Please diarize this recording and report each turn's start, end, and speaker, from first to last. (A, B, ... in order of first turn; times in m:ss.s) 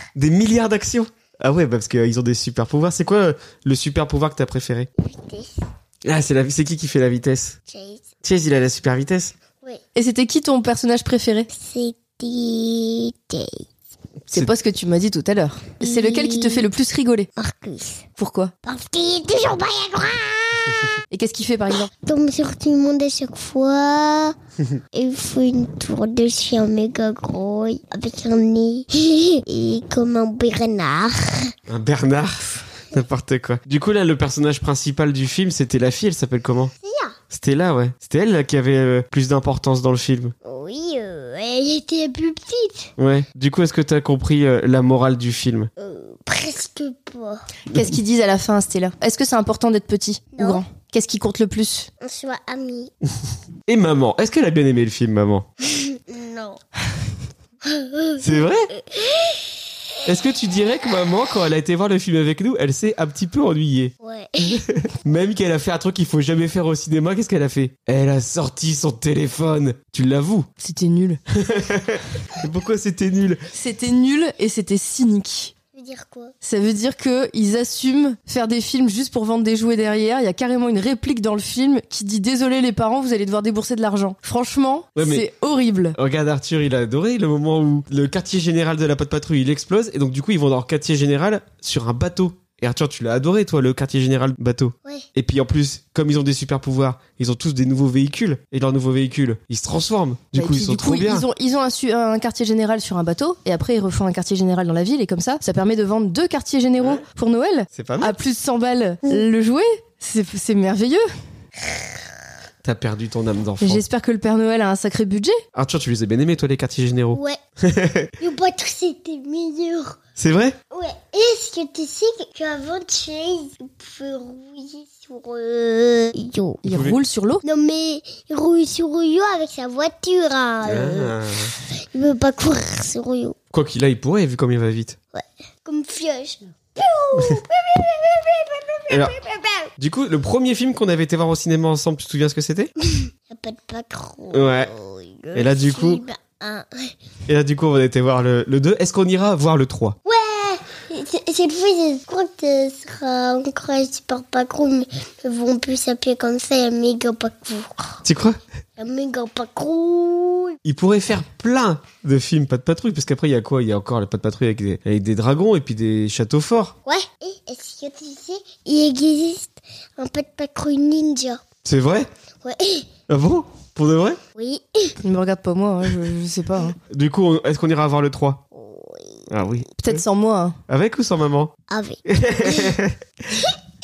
0:00.2-0:04.9 A
0:05.0-0:05.5 B
0:06.0-0:07.6 A
0:07.7-0:08.0 B
0:08.2-0:09.3 A
0:09.9-0:11.5 C
0:11.5-0:13.6 B
0:14.2-0:14.5 A
0:14.3-0:17.3 C
0:15.8-0:16.6 B
0:17.4-0:18.0 B
0:18.2-0:18.5 C
0:18.6-0:20.9 B
0:21.1-0:21.9 C
0:22.0-0:24.3 B
0:24.9-0:31.5 B
0:31.7-0:36.7 A
0:36.8-0:37.2 B
0:37.3-0:40.3 A
0:40.4-0:42.9 B
0:43.0-0:45.7 A
0:45.8-0:47.4 B
0:47.7-0:51.9 C
0:50.3-0:50.6 B
0:52.0-0:52.9 B
0:53.7-0:55.5 A
0:55.7-0:56.6 B
0:57.6-0:59.5 B
0:58.2-0:58.7 A
1:00.0-1:03.9 A
1:04.0-1:04.6 B
1:04.5-1:10.5 A
1:10.6-1:11.2 C
1:11.3-1:13.4 A
1:13.5-1:15.5 C
1:15.7-1:16.3 B
1:16.4-1:26.0 C
1:25.0-1:25.3 A
1:25.9-1:41.3 A
1:40.3-1:51.0 C
1:46.8-1:47.0 A
1:47.7-1:48.1 A
1:51.7-1:51.9 B
1:52.6-1:53.8 A
1:53.6-1:55.4 C
1:55.5-1:58.1 A
1:58.2-2:00.0 B
2:00.2-2:00.6 A
2:00.7-2:06.6 B
2:06.6-2:07.4 C
2:06.7-2:07.0 A
2:07.4-2:13.4 B
2:10.6-2:11.5 A
2:13.5-2:15.0 A
2:15.1-2:19.7 B
2:18.9-2:19.2 A
2:19.8-2:22.7 A
2:22.9-2:26.9 B
2:24.3-2:24.7 A
2:25.3-2:26.0 A
2:27.3-2:30.0 A
2:30.0-2:38.0 B
2:38.0-2:38.4 A
2:38.8-2:40.6 B
2:40.6-2:46.7 A
2:46.8-2:51.4 B
2:51.6-2:52.1 A
2:52.4-2:52.9 B
2:53.1-2:54.2 A
2:54.4-2:54.9 B
2:55.0-2:56.8 C
2:56.9-2:58.4 A
2:58.5-2:59.3 B
2:59.3-3:00.0 A
2:59.8-3:00.6 C
3:00.7-3:01.5 A
3:01.7-3:02.7 B
3:02.1-3:03.0 A